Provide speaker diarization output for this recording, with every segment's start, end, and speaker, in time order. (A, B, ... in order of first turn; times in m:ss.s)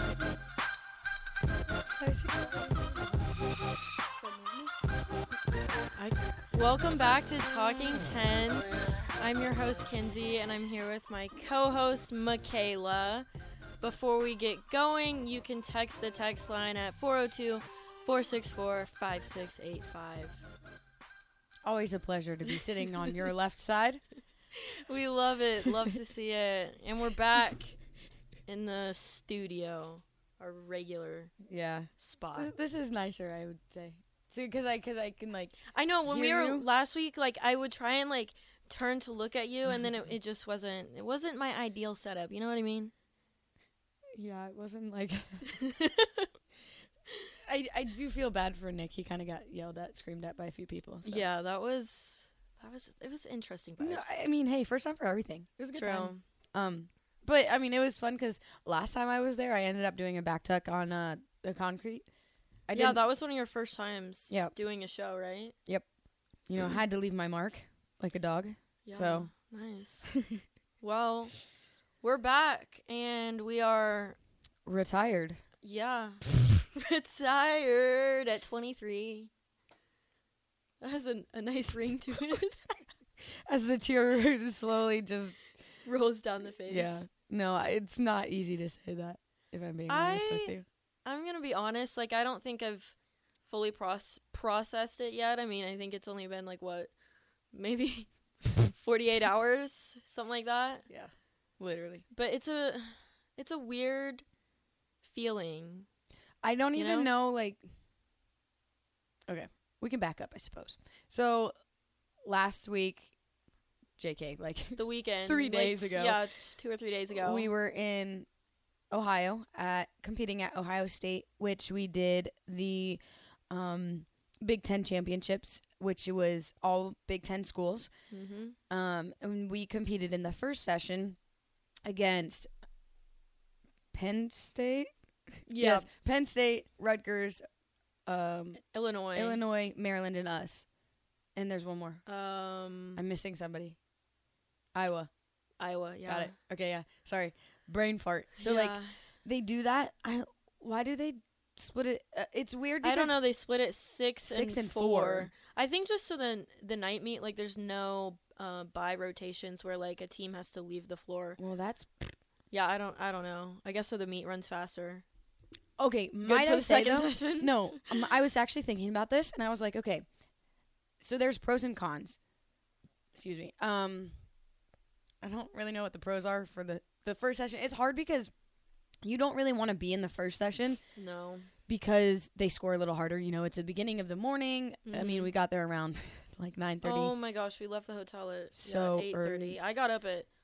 0:02.0-0:03.2 A
0:04.2-0:04.7 A
0:05.9-0:13.3 B
0:13.8-0:20.4 B
0:21.6-0:24.0 A
0:22.5-0:23.2 B
0:24.5-0:27.8 B
0:28.5-0:31.3 B
0:31.4-0:36.7 A
0:32.0-0:32.5 B
0:35.6-0:42.9 B
0:44.1-0:45.5 A
0:45.5-0:46.3 B
0:47.4-0:51.2 A
0:51.0-0:54.2 B
0:53.8-1:02.1 A
0:55.7-0:56.2 B
1:02.7-1:03.0 A
1:02.7-1:05.5 B
1:06.5-1:09.3 A
1:08.8-1:10.1 B
1:10.8-1:11.4 B
1:12.0-1:14.2 B
1:14.6-1:15.4 A
1:15.6-1:19.3 B
1:20.8-1:22.8 B
1:23.4-1:25.4 A
1:25.8-1:27.0 B
1:26.7-1:30.6 A
1:29.9-1:36.9 B
1:37.5-1:40.9 B
1:40.9-1:42.0 A
1:42.1-1:44.2 B
1:45.0-1:45.9 B
1:46.4-1:47.6 A
1:46.7-1:47.1 B
1:49.3-1:51.5 A
1:52.2-1:53.1 A
1:54.0-1:56.4 A
1:54.8-1:57.5 B
1:57.1-1:58.3 A
1:58.9-2:07.9 A
2:08.1-2:08.6 B
2:08.7-2:11.2 A
2:11.8-2:12.5 A
2:13.9-2:14.9 A
2:15.5-2:15.9 B
2:15.5-2:17.4 A
2:18.1-2:18.6 A
2:18.6-2:19.4 B
2:19.1-2:20.6 A
2:21.4-2:22.0 A
2:22.0-2:23.0 B
2:22.9-2:23.8 A
2:24.7-2:25.1 A
2:25.6-2:26.4 B
2:26.0-2:33.2 A
2:28.4-2:29.0 B
2:32.8-2:41.4 B
2:34.3-2:35.3 A
2:41.4-2:42.1 A
2:42.5-2:45.0 B
2:45.8-2:50.0 A
2:46.2-2:48.1 B
2:51.0-2:52.2 A
2:53.1-2:54.1 A
2:55.2-2:58.3 A
2:59.0-3:00.8 A
3:00.9-3:01.5 B
3:01.7-3:07.2 A
3:04.8-3:05.3 B
3:06.8-3:10.3 B
3:08.5-3:09.6 A